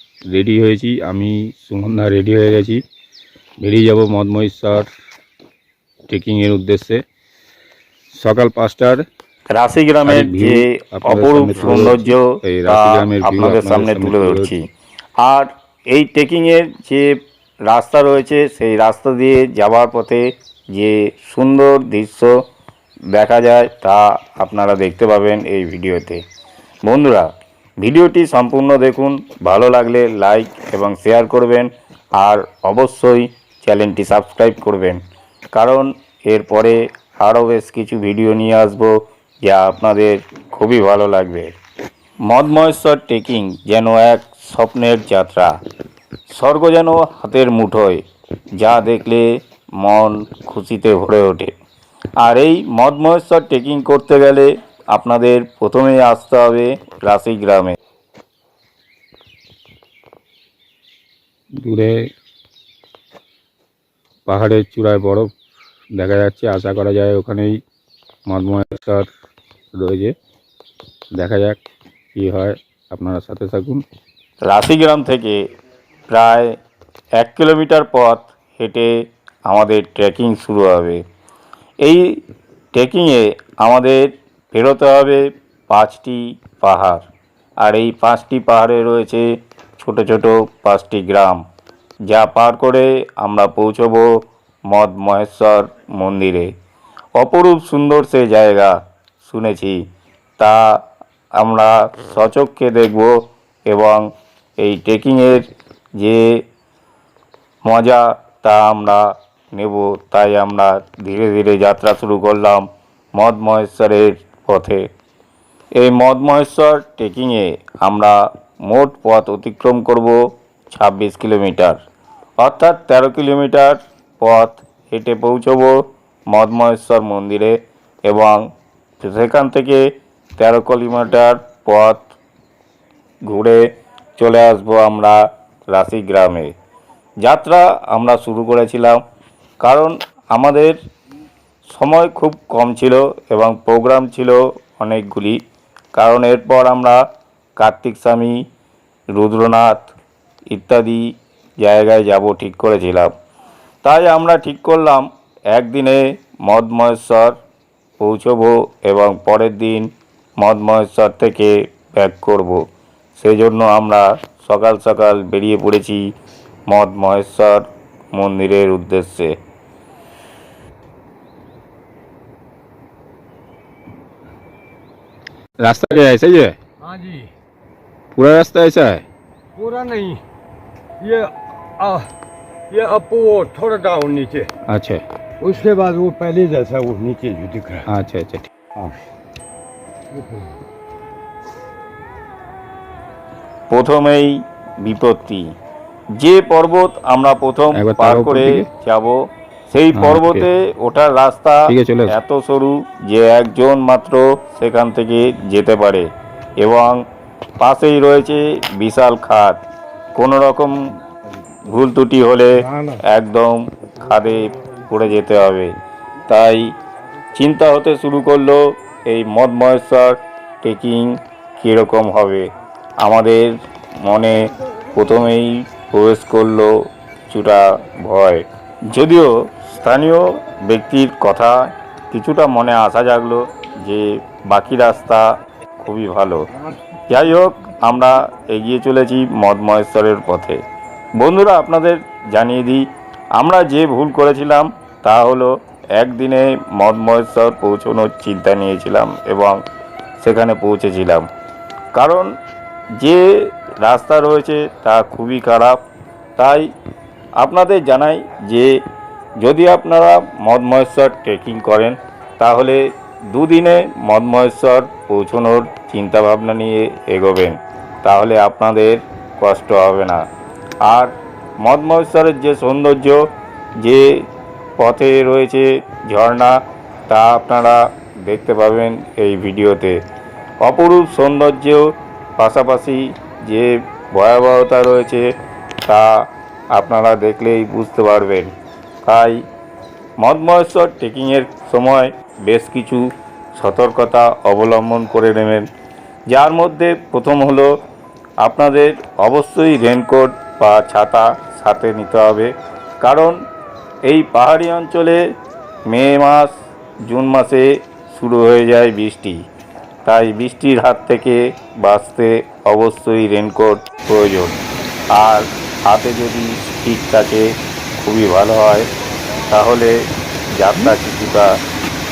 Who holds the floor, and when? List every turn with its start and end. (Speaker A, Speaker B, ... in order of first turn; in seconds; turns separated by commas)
Speaker A: 0.3-2.8, Speaker A: 3.6-4.9, Speaker A: 6.1-7.0, Speaker A: 8.1-9.0, Speaker B: 9.5-14.6, Speaker A: 10.1-14.5, Speaker B: 15.2-17.1, Speaker B: 17.7-20.2, Speaker B: 20.8-22.3, Speaker B: 23.1-26.2, Speaker B: 26.9-27.2, Speaker B: 27.8-35.0, Speaker B: 35.5-38.9, Speaker B: 39.5-41.5, Speaker B: 42.3-45.5, Speaker B: 46.3-48.0, Speaker B: 48.6-49.2, Speaker B: 49.8-51.5, Speaker B: 52.2-57.8, Speaker A: 61.6-62.0, Speaker A: 64.3-65.3, Speaker A: 66.0-67.6, Speaker A: 68.3-69.1, Speaker A: 69.8-70.1, Speaker A: 71.2-71.6, Speaker A: 72.2-73.8, Speaker B: 74.5-75.4, Speaker B: 76.1-76.5, Speaker B: 77.2-78.9, Speaker B: 79.5-81.0, Speaker B: 82.7-84.0, Speaker B: 84.5-87.0, Speaker B: 87.6-89.2, Speaker B: 89.8-91.4, Speaker B: 92.1-94.1, Speaker B: 94.7-96.5, Speaker B: 97.2-99.8, Speaker B: 101.4-103.1, Speaker B: 103.7-104.0, Speaker B: 104.6-105.5, Speaker B: 107.7-109.0, Speaker B: 109.5-114.8, Speaker B: 115.8-118.1, Speaker B: 118.7-120.2, Speaker B: 120.7-121.8, Speaker B: 122.4-125.8, Speaker B: 126.3-127.6, Speaker B: 128.1-128.4, Speaker B: 129.0-129.8, Speaker B: 130.4-132.1, Speaker B: 133.3-133.6, Speaker B: 134.2-135.2, Speaker B: 135.7-136.5, Speaker B: 137.2-139.0, Speaker B: 139.6-140.8, Speaker B: 141.7-145.4, Speaker B: 146.0-147.0, Speaker B: 147.6-148.3, Speaker B: 149.2-149.9, Speaker B: 150.5-151.0, Speaker B: 151.6-153.1, Speaker B: 153.8-157.3, Speaker B: 158.0-162.6, Speaker B: 163.2-166.0, Speaker B: 166.7-169.3, Speaker A: 175.6-176.6, Speaker C: 176.8-177.3, Speaker A: 178.2-179.0, Speaker C: 179.6-180.2, Speaker C: 181.0-182.1, Speaker C: 182.7-184.5, Speaker A: 184.7-185.0, Speaker C: 185.4-187.9, Speaker A: 187.9-188.5, Speaker C: 190.1-190.5, Speaker B: 193.7-195.4, Speaker B: 196.2-199.2, Speaker A: 197.8-198.7, Speaker B: 199.7-206.1, Speaker A: 199.9-200.5, Speaker A: 201.7-202.2, Speaker B: 206.6-207.0, Speaker B: 207.6-209.6, Speaker B: 210.2-210.8, Speaker B: 211.7-215.7, Speaker B: 216.3-216.7, Speaker B: 217.3-222.5, Speaker B: 223.0-223.5, Speaker B: 224.1-224.4, Speaker B: 224.9-226.7, Speaker B: 227.3-231.6, Speaker B: 232.1-235.2, Speaker B: 235.8-236.4, Speaker B: 237.1-240.6, Speaker B: 241.2-242.8, Speaker B: 243.4-249.6, Speaker B: 250.2-251.3, Speaker B: 251.9-252.3, Speaker B: 253.0-255.8, Speaker B: 256.4-256.7, Speaker B: 257.4-258.7, Speaker B: 259.4-262.8, Speaker B: 263.3-270.2, Speaker B: 271.6-273.2, Speaker B: 274.8-276.5, Speaker B: 277.1-280.0, Speaker B: 280.6-281.8, Speaker B: 282.4-285.2, Speaker B: 286.7-288.5, Speaker B: 289.1-289.4, Speaker B: 290.2-293.0, Speaker B: 293.6-295.7, Speaker B: 296.3-297.7, Speaker B: 298.4-303.4, Speaker B: 304.1-305.2, Speaker B: 305.9-306.5, Speaker B: 307.1-309.4, Speaker B: 310.1-314.6, Speaker B: 315.1-317.5, Speaker B: 318.0-318.9, Speaker B: 319.5-319.9, Speaker B: 320.6-321.5